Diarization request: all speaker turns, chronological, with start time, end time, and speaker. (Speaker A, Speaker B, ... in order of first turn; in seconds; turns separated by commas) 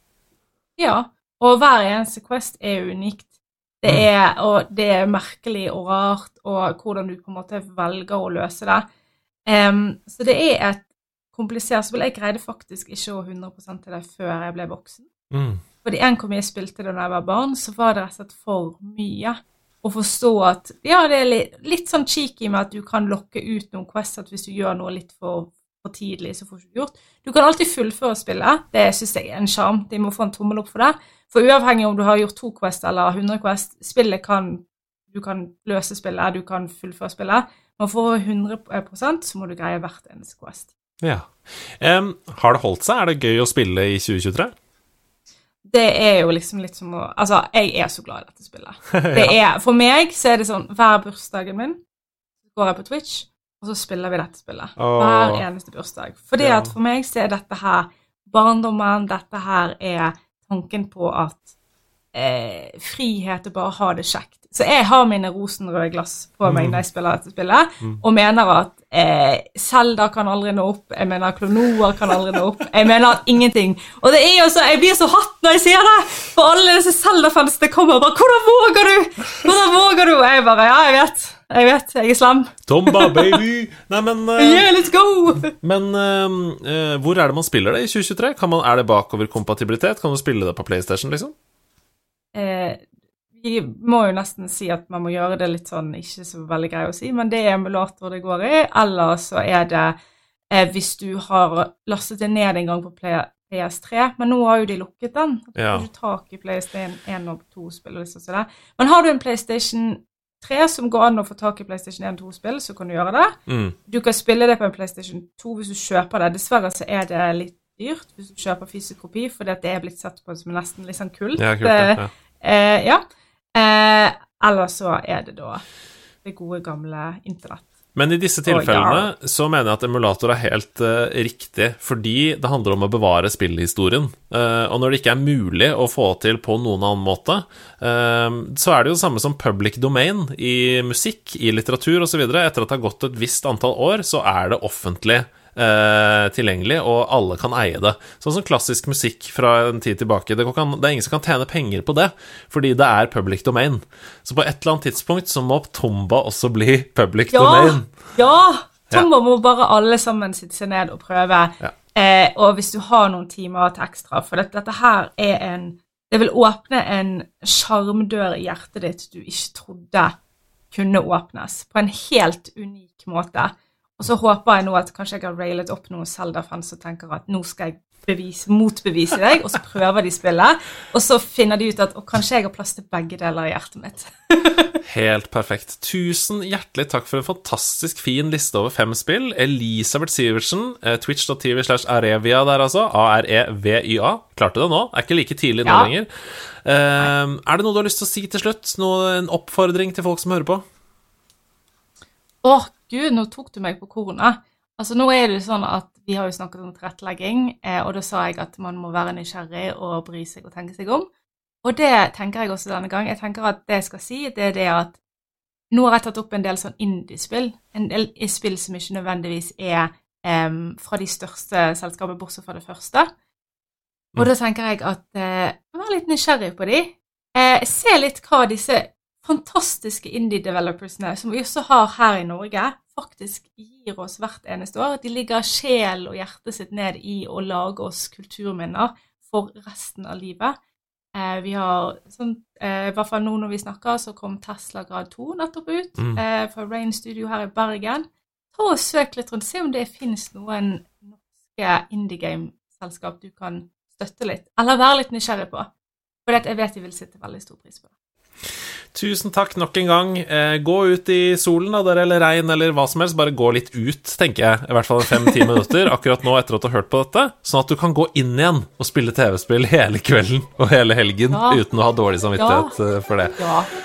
Speaker A: 0.8-8.8, Speaker A: 9.4-15.1, Speaker B: 15.3-15.6, Speaker A: 15.8-40.7, Speaker B: 41.0-44.5, Speaker A: 45.6-51.8, Speaker B: 48.9-49.3, Speaker A: 52.5-61.5, Speaker B: 54.8-55.4, Speaker B: 56.4-56.7, Speaker A: 62.1-83.4, Speaker B: 66.4-66.8, Speaker B: 82.7-84.7, Speaker A: 84.4-85.5, Speaker B: 85.5-91.3, Speaker A: 92.3-92.8, Speaker A: 93.3-100.0, Speaker A: 100.5-113.3, Speaker B: 105.5-105.9, Speaker B: 113.5-113.8, Speaker A: 113.9-123.0, Speaker B: 121.4-122.1, Speaker A: 123.5-125.6, Speaker A: 126.2-127.7, Speaker B: 127.9-157.9, Speaker A: 128.4-129.1, Speaker A: 157.3-170.2, Speaker A: 170.7-184.7, Speaker B: 184.8-200.6, Speaker A: 195.6-195.9, Speaker A: 202.4-211.1, Speaker A: 211.6-215.0, Speaker A: 215.7-223.1, Speaker A: 224.2-240.6, Speaker A: 241.1-255.7, Speaker A: 256.2-257.9, Speaker B: 258.9-273.4, Speaker A: 271.3-271.6, Speaker A: 272.4-272.8, Speaker A: 273.4-273.7